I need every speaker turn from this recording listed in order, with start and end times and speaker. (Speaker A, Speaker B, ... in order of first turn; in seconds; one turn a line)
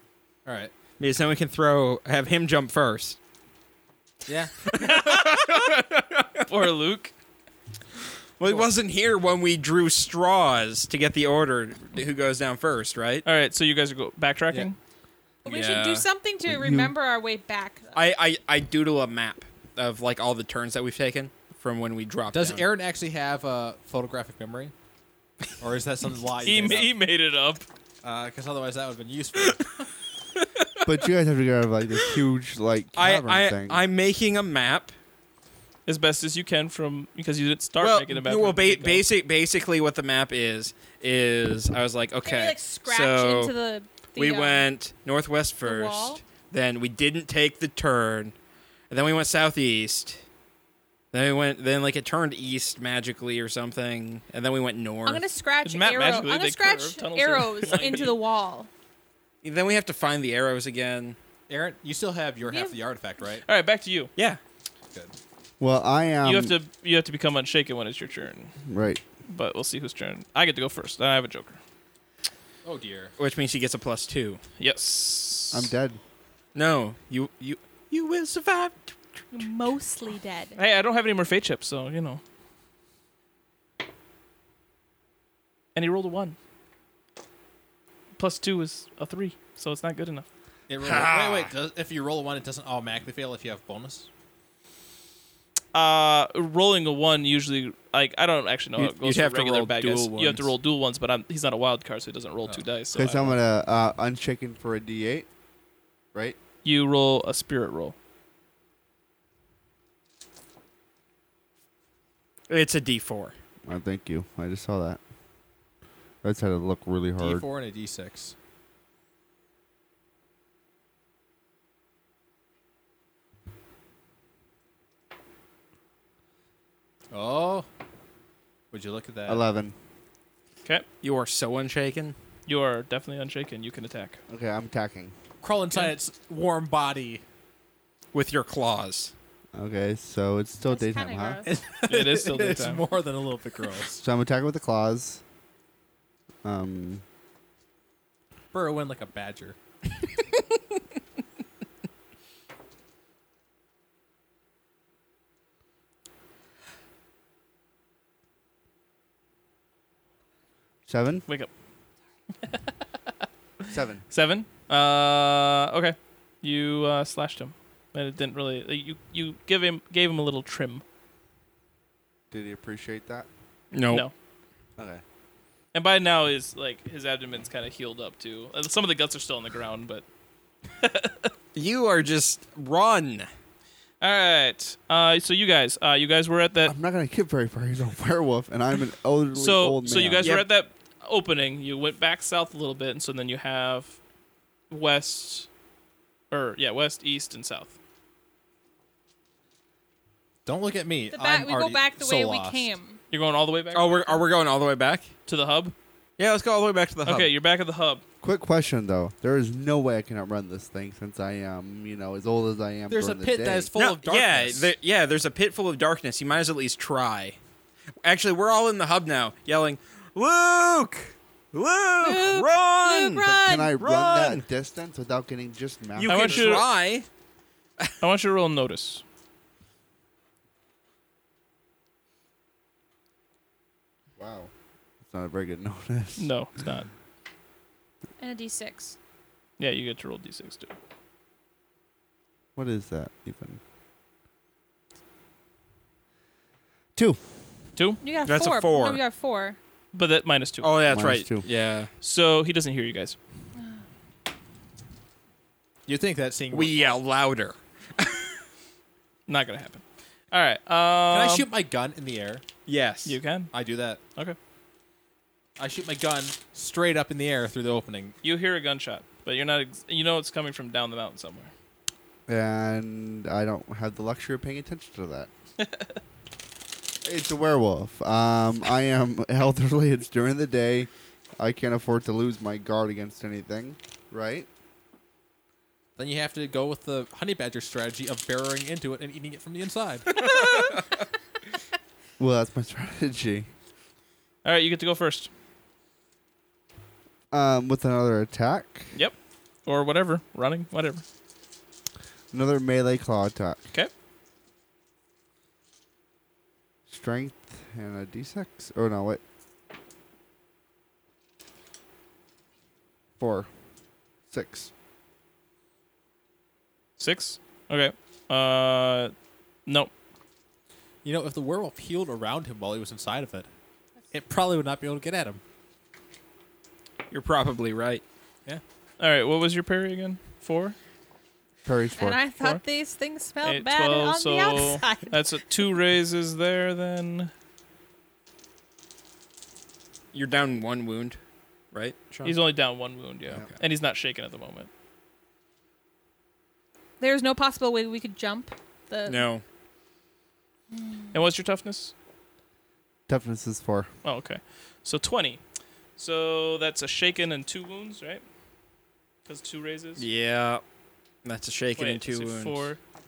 Speaker A: 0.5-0.7
Speaker B: 1.0-3.2
Speaker A: 4.3-4.5
Speaker B: 4.6-6.5
Speaker C: 4.7-5.7
Speaker C: 6.5-7.1
Speaker B: 8.4-13.3
Speaker C: 13.2-14.8
Speaker B: 15.4-16.1
Speaker D: 15.4-18.0
Speaker E: 16.5-16.9
Speaker B: 17.9-22.6
Speaker A: 22.3-24.7
Speaker A: 25.6-26.9
Speaker C: 26.4-27.7
Speaker A: 28.0-29.7
Speaker E: 30.9-33.8
Speaker B: 33.0-34.9
Speaker C: 35.9-39.0
Speaker B: 37.8-43.5
Speaker D: 42.2-44.7
Speaker B: 44.1-48.3
Speaker D: 45.6-46.2
Speaker B: 48.9-50.2
Speaker B: 51.1-55.3
Speaker D: 55.0-58.7
Speaker C: 55.6-58.2
Speaker B: 59.4-61.2
Speaker A: 61.5-63.4
Speaker D: 62.4-62.8
Speaker C: 63.5-64.1
Speaker E: 65.6-66.6
Speaker C: 66.2-68.5
Speaker E: 68.7-69.0
Speaker C: 69.3-71.6
Speaker A: 72.7-73.1
Speaker B: 73.2-74.4
Speaker C: 74.6-75.7
Speaker E: 75.5-76.0
Speaker B: 76.5-78.9
Speaker D: 79.3-80.6
Speaker C: 80.6-82.2
Speaker C: 85.8-86.4
Speaker C: 88.2-90.3
Speaker A: 90.7-94.1
Speaker B: 90.8-91.5
Speaker C: 95.7-103.4
Speaker B: 98.8-100.5
Speaker E: 102.9-105.3
Speaker C: 106.6-108.0
Speaker B: 112.5-113.3
Speaker E: 113.7-115.0
Speaker E: 116.2-117.5
Speaker A: 117.2-118.3
Speaker A: 127.1-127.7
Speaker A: 128.7-129.4
Speaker E: 129.3-129.7
Speaker B: 131.0-132.2
Speaker C: 132.5-134.2
Speaker E: 134.3-135.1
Speaker A: 135.4-137.2
Speaker B: 138.1-139.1
Speaker E: 139.6-141.4
Speaker D: 140.7-141.5
Speaker A: 141.4-144.0
Speaker C: 141.8-142.9
Speaker E: 144.0-145.2
Speaker E: 146.4-147.0
Speaker A: 148.5-149.6
Speaker E: 160.9-161.3
Speaker E: 163.7-164.0
Speaker C: 164.1-170.8
Speaker E: 172.3-173.3
Speaker B: 173.7-174.1
Speaker E: 174.8-175.0
Speaker C: 175.7-180.1
Speaker C: 180.8-181.3
Speaker B: 181.6-183.3
Speaker C: 184.0-186.8
Speaker E: 186.7-190.3
Speaker C: 189.3-194.0
Speaker B: 190.2-190.5
Speaker C: 194.7-195.5
Speaker C: 196.3-197.7
Speaker A: 200.5-202.7
Speaker D: 201.1-203.0
Speaker C: 203.1-204.2
Speaker B: 203.7-205.1
Speaker C: 205.3-205.7
Speaker B: 206.2-207.3
Speaker C: 207.1-208.0
Speaker E: 208.2-213.7
Speaker A: 212.9-214.7
Speaker B: 213.8-217.4
Speaker B: 218.0-224.4
Speaker D: 222.0-223.7
Speaker E: 223.4-226.6
Speaker B: 226.0-227.1
Speaker C: 226.1-226.7
Speaker C: 228.0-229.0
Speaker E: 234.2-234.5
Speaker E: 235.0-236.3
Speaker C: 236.2-236.9
Speaker D: 238.2-239.0
Speaker C: 239.6-240.8
Speaker E: 242.6-243.6
Speaker E: 247.0-247.2
Speaker C: 247.8-248.0
Speaker D: 248.0-249.6
Speaker B: 248.2-249.0
Speaker C: 249.9-250.7
Speaker B: 250.6-251.9
Speaker E: 250.9-251.4
Speaker C: 252.0-253.2
Speaker A: 255.9-257.0
Speaker B: 256.5-258.2
Speaker C: 259.3-261.5
Speaker A: 261.1-262.4
Speaker B: 262.7-263.2
Speaker C: 263.1-263.5
Speaker A: 263.5-264.0
Speaker A: 265.6-268.1
Speaker C: 268.2-271.5
Speaker E: 272.3-275.3
Speaker E: 277.0-284.5
Speaker A: 286.0-290.1
Speaker D: 290.4-290.7
Speaker E: 292.2-293.5
Speaker C: 294.4-295.3
Speaker E: 297.3-298.9
Speaker C: 298.9-301.0
Speaker E: 302.3-303.6
Speaker E: 306.9-309.2
Speaker E: 313.2-313.5
Speaker E: 314.3-314.7
Speaker C: 317.0-319.1
Speaker C: 319.7-319.9
Speaker A: 321.0-323.5
Speaker A: 324.1-325.4
Speaker B: 327.1-328.0
Speaker C: 328.5-330.8
Speaker E: 331.6-332.2
Speaker D: 332.0-335.3
Speaker C: 333.4-337.3
Speaker B: 340.1-341.2
Speaker B: 341.7-342.4
Speaker C: 342.2-344.7
Speaker D: 347.0-349.2
Speaker B: 349.1-349.4
Speaker D: 350.7-351.1
Speaker C: 351.1-351.9
Speaker E: 353.1-353.9
Speaker C: 354.0-355.4
Speaker C: 356.0-358.2
Speaker C: 359.3-360.1
Speaker B: 360.0-360.6
Speaker B: 361.2-362.6
Speaker C: 361.8-362.8